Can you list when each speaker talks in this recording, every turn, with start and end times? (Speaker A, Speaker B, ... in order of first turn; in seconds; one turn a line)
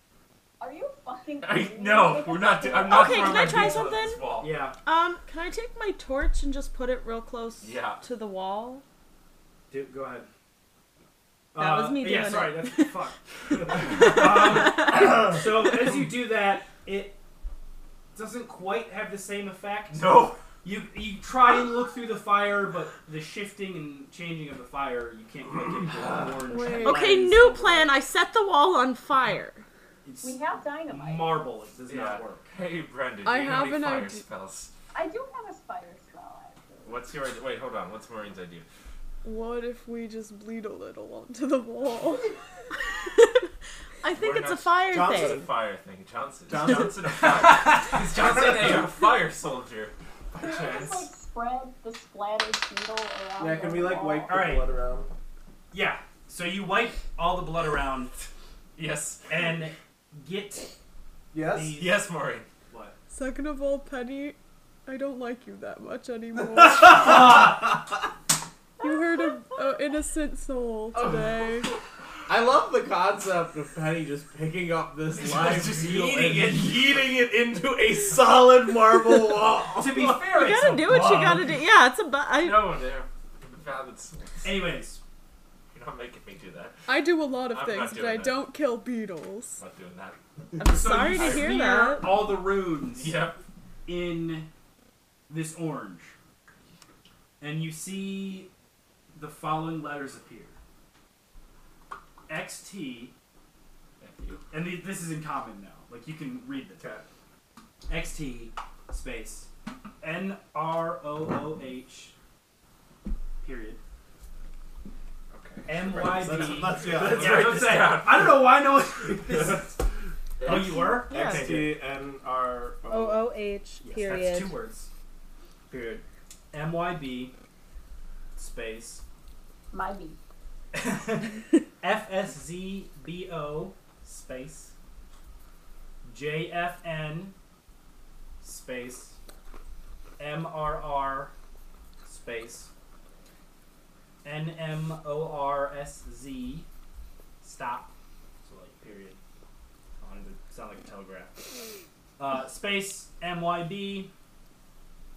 Speaker A: 0.6-3.6
Speaker B: 1.4-4.5
Speaker C: 2.8-8.8
Speaker D: 4.4-4.8
Speaker B: 7.6-8.0
Speaker D: 9.7-10.3
Speaker D: 11.5-17.2
Speaker C: 11.6-13.0
Speaker C: 13.9-14.9
Speaker D: 18.1-27.9
Speaker B: 19.9-20.4
Speaker B: 25.9-26.5
Speaker E: 26.5-27.0
Speaker C: 26.8-29.6
Speaker D: 30.1-32.5
Speaker A: 30.2-31.4
Speaker B: 31.9-34.7
Speaker E: 33.2-34.2
Speaker A: 34.9-37.0
Speaker B: 36.8-38.7
Speaker E: 39.2-42.3
Speaker C: 42.9-43.5
Speaker C: 44.0-45.5
Speaker B: 44.1-51.1
Speaker F: 44.9-45.5
Speaker F: 46.5-47.4
Speaker D: 46.6-48.7
Speaker F: 48.1-48.8
Speaker A: 50.4-54.3
Speaker F: 53.4-55.1
Speaker D: 54.3-54.7
Speaker D: 55.7-58.1
Speaker B: 58.8-59.3
Speaker D: 59.3-60.8
Speaker F: 61.3-61.8
Speaker D: 61.4-62.0
Speaker B: 61.7-62.5
Speaker D: 62.7-63.0
Speaker E: 63.1-67.2
Speaker D: 66.8-67.6
Speaker E: 68.8-71.7
Speaker F: 72.3-80.2
Speaker B: 75.2-76.7
Speaker D: 75.5-76.5
Speaker D: 79.8-81.6
Speaker C: 80.3-82.8
Speaker B: 82.4-84.7
Speaker D: 84.4-85.0
Speaker B: 85.7-86.9
Speaker E: 86.9-89.6
Speaker B: 87.5-88.4
Speaker B: 89.6-90.2
Speaker C: 90.6-92.2
Speaker D: 90.6-93.2
Speaker B: 91.1-91.5
Speaker B: 92.9-93.4
Speaker D: 93.9-94.5
Speaker D: 95.3-96.1
Speaker D: 97.4-98.5
Speaker D: 99.1-100.6
Speaker D: 102.3-103.1
Speaker B: 104.0-104.4
Speaker D: 104.5-106.9
Speaker F: 106.8-107.1
Speaker D: 107.9-109.5
Speaker D: 110.0-112.1
Speaker D: 113.4-113.8
Speaker B: 115.3-118.5
Speaker D: 115.7-119.8
Speaker F: 116.0-117.6
Speaker B: 119.3-119.6
Speaker B: 120.4-121.0
Speaker D: 120.5-121.8
Speaker C: 120.9-121.7
Speaker F: 121.1-123.3
Speaker C: 122.9-124.6
Speaker D: 123.8-124.9
Speaker F: 125.7-126.0
Speaker D: 126.5-127.3
Speaker D: 128.4-129.0
Speaker A: 129.7-130.2
Speaker D: 130.7-134.7
Speaker D: 136.1-137.3
Speaker D: 138.4-139.2
Speaker D: 140.2-141.3
Speaker D: 142.1-142.7
Speaker D: 144.2-146.7
Speaker D: 147.4-147.9
Speaker D: 148.4-149.2
Speaker D: 150.0-151.4
Speaker D: 152.2-154.1